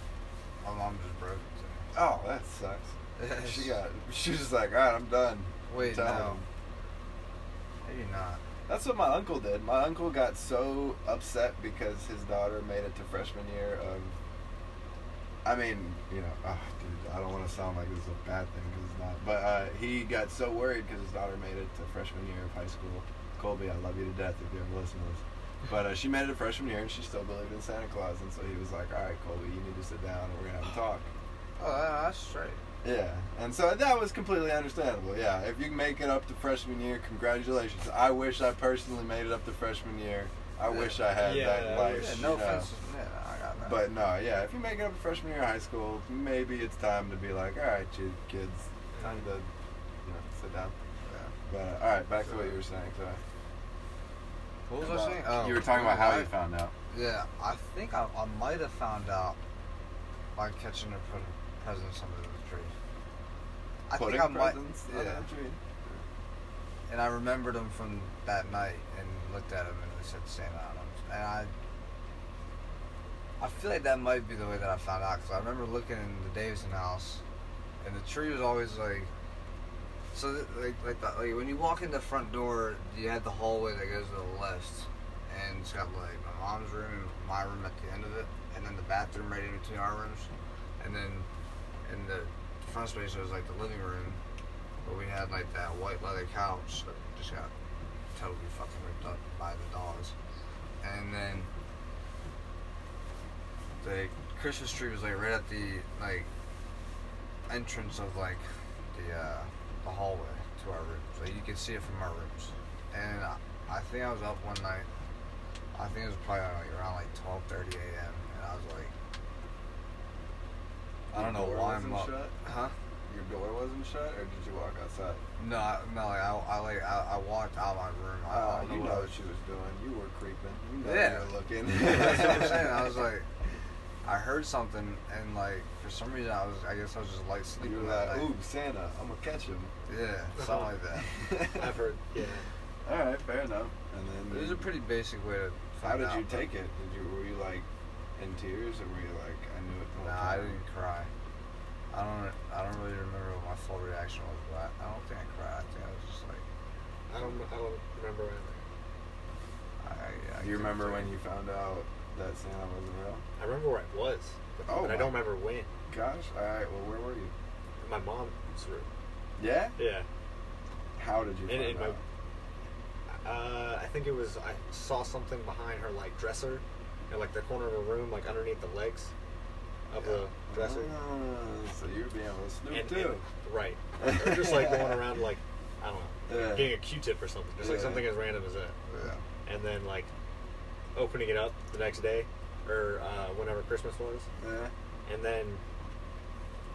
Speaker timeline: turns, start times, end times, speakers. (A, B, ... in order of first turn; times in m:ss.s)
0:00.6-0:01.8 A
0:01.9-0:06.4 B
0:03.2-0:03.7 A
0:05.7-0:06.4 A
0:07.8-0:08.4 A
0:08.7-0:14.2 B
0:15.4-0:31.1 B
0:31.6-0:32.6 A
0:32.8-0:42.7 B
0:40.7-0:41.0 A
0:41.2-0:42.2 C
0:41.9-0:43.9 A
0:43.6-0:49.5 B
0:48.9-0:49.2 C
0:50.0-0:50.8 B
0:51.0-0:51.3 A
0:51.5-0:53.2 B
0:52.2-0:52.5 A
0:54.7-0:56.3 A
0:54.8-0:56.7 B
0:56.9-0:59.4 A
1:00.3-1:02.7 A
1:03.9-1:05.2 A
1:03.9-1:06.0 B
1:06.9-1:11.5 A
1:13.4-1:17.2 A
1:17.8-1:19.1 A
1:20.1-1:31.3 A
1:31.8-1:34.2 A
1:34.8-1:37.5 A
1:38.1-1:40.1 A
1:40.8-1:41.5 A
1:43.8-1:46.3 A
1:47.5-1:54.9 A
1:55.7-1:58.9 A
2:01.1-2:02.4 B
2:01.1-2:02.7 A
2:03.1-2:05.2 B
2:05.4-2:09.1 A
2:08.3-2:12.9 B
2:10.8-2:13.3 A
2:14.0-2:18.3 A
2:17.6-2:19.7 B
2:19.9-2:21.1 A
2:20.4-2:20.8 C
2:21.2-2:21.8 B
2:21.4-2:22.4 C
2:22.8-2:24.7 B
2:24.3-2:26.4 A
2:25.8-2:30.6 B
2:30.0-2:31.1 A
2:31.9-2:36.4 A
2:37.1-2:38.6 C
2:39.8-2:41.1 A
2:40.4-2:43.2 B
2:43.4-2:45.7 C
2:44.7-2:45.3 B
2:45.9-2:47.3 B
2:47.8-2:48.9 C
2:49.4-2:49.8 B
2:49.8-2:50.1 C
2:51.0-2:52.0 B
2:51.5-2:52.0 C
2:53.1-2:59.1 C
2:59.9-3:00.9 C
3:00.5-3:03.2 B
3:02.7-3:08.8 C
3:04.0-3:05.1 B
3:06.3-3:06.8 B
3:07.6-3:08.1 B
3:08.9-3:09.2 A
3:09.4-3:10.1 C
3:10.9-3:14.3 C
3:14.4-3:14.7 B
3:15.0-3:15.6 C